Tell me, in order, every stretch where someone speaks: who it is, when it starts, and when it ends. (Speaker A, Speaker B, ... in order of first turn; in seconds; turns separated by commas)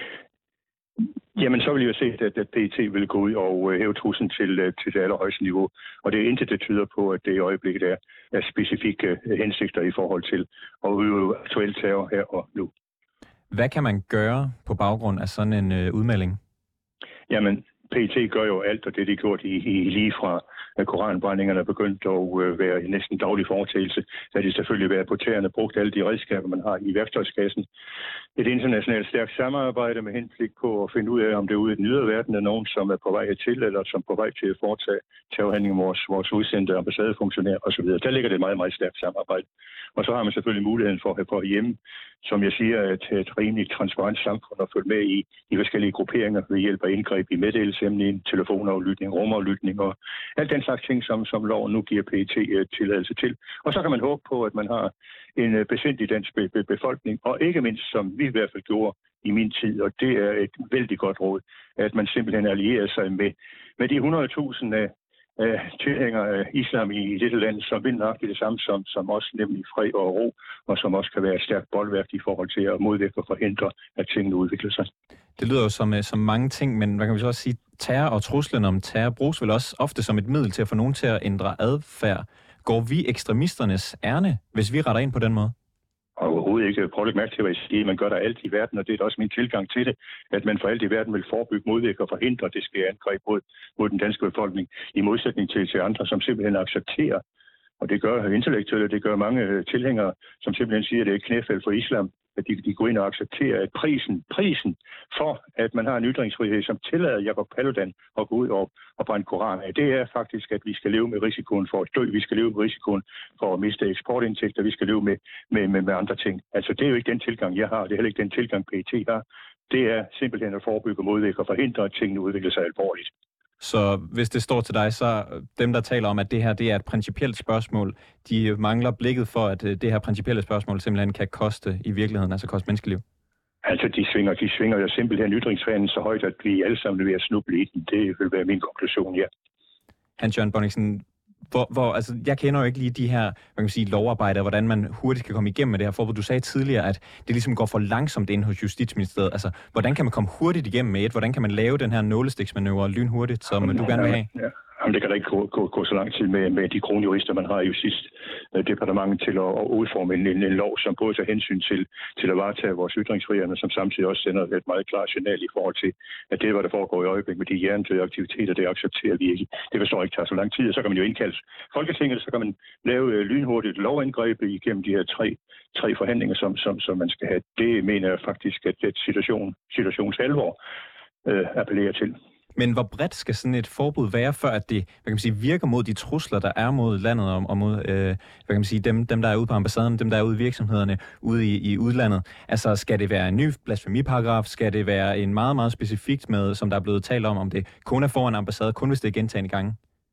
Speaker A: 1.3-12.7, Speaker B: 13.5-16.4, Speaker A: 17.3-27.7, Speaker A: 28.4-39.4, Speaker A: 40.0-74.9, Speaker B: 75.4-85.5, Speaker A: 86.2-97.2, Speaker A: 97.8-123.1, Speaker B: 123.6-133.0, Speaker A: 133.6-139.3, Speaker B: 140.2-154.3, Speaker A: 153.6-180.6, Speaker A: 181.2-182.2, Speaker B: 182.5-199.8